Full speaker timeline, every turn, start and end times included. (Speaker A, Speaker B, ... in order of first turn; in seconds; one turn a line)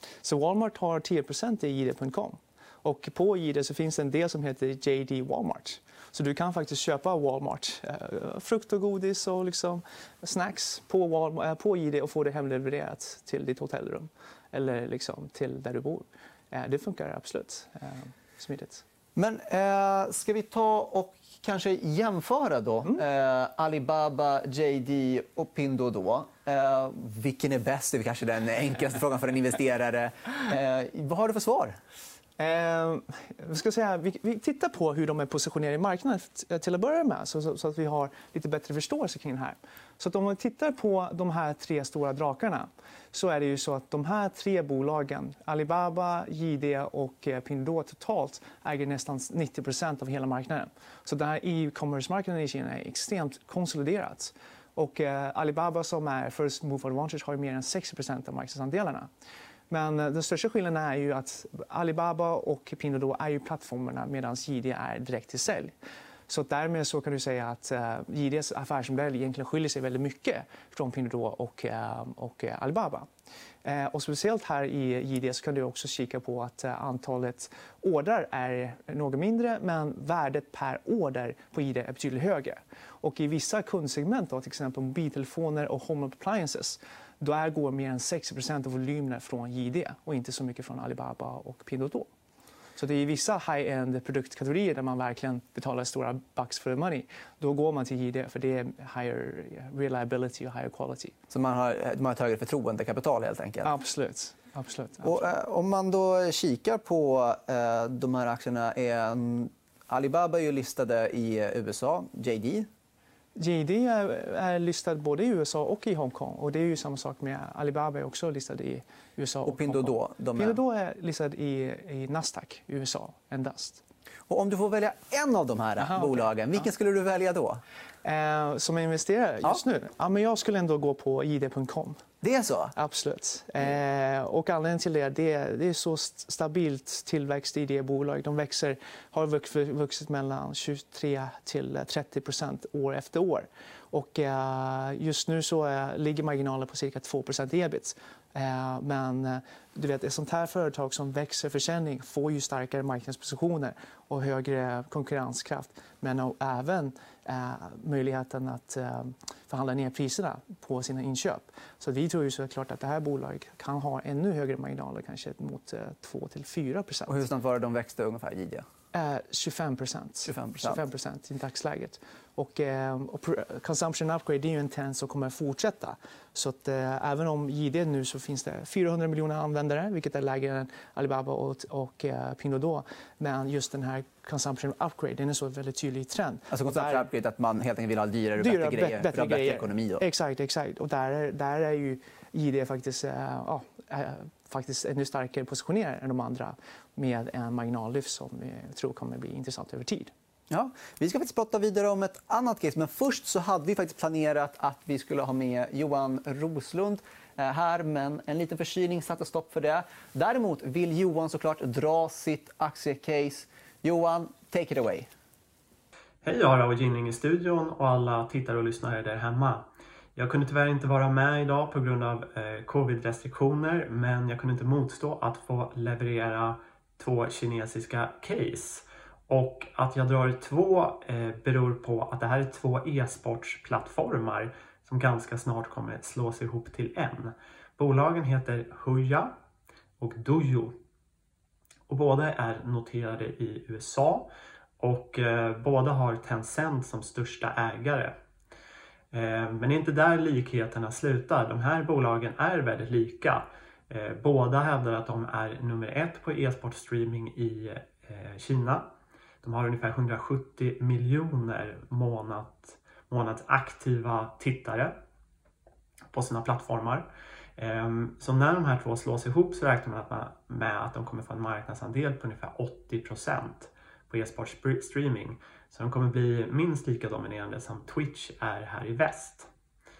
Speaker A: 0.2-18.8
Speaker B: 19.1-31.8
Speaker A: 32.4-59.1
Speaker A: 59.7-65.7
Speaker A: 66.3-73.1
Speaker A: 73.6-92.1
Speaker A: 92.8-101.1
Speaker B: 101.3-103.7
Speaker A: 103.6-105.3
Speaker B: 105.0-112.7
Speaker A: 113.3-123.8
Speaker B: 119.5-120.6
Speaker B: 124.3-127.6
Speaker A: 125.8-126.1
Speaker A: 128.0-132.0
Speaker B: 132.2-132.7
Speaker A: 132.7-167.2
Speaker B: 167.1-168.6
Speaker A: 168.9-187.1
Speaker B: 170.3-170.8
Speaker B: 186.5-190.0
Speaker A: 188.4-200.1
Speaker B: 200.5-215.1
Speaker C: 216.2-239.4
Speaker C: 240.0-240.8
Speaker C: 241.9-248.2
Speaker C: 249.1-265.0
Speaker C: 266.1-279.5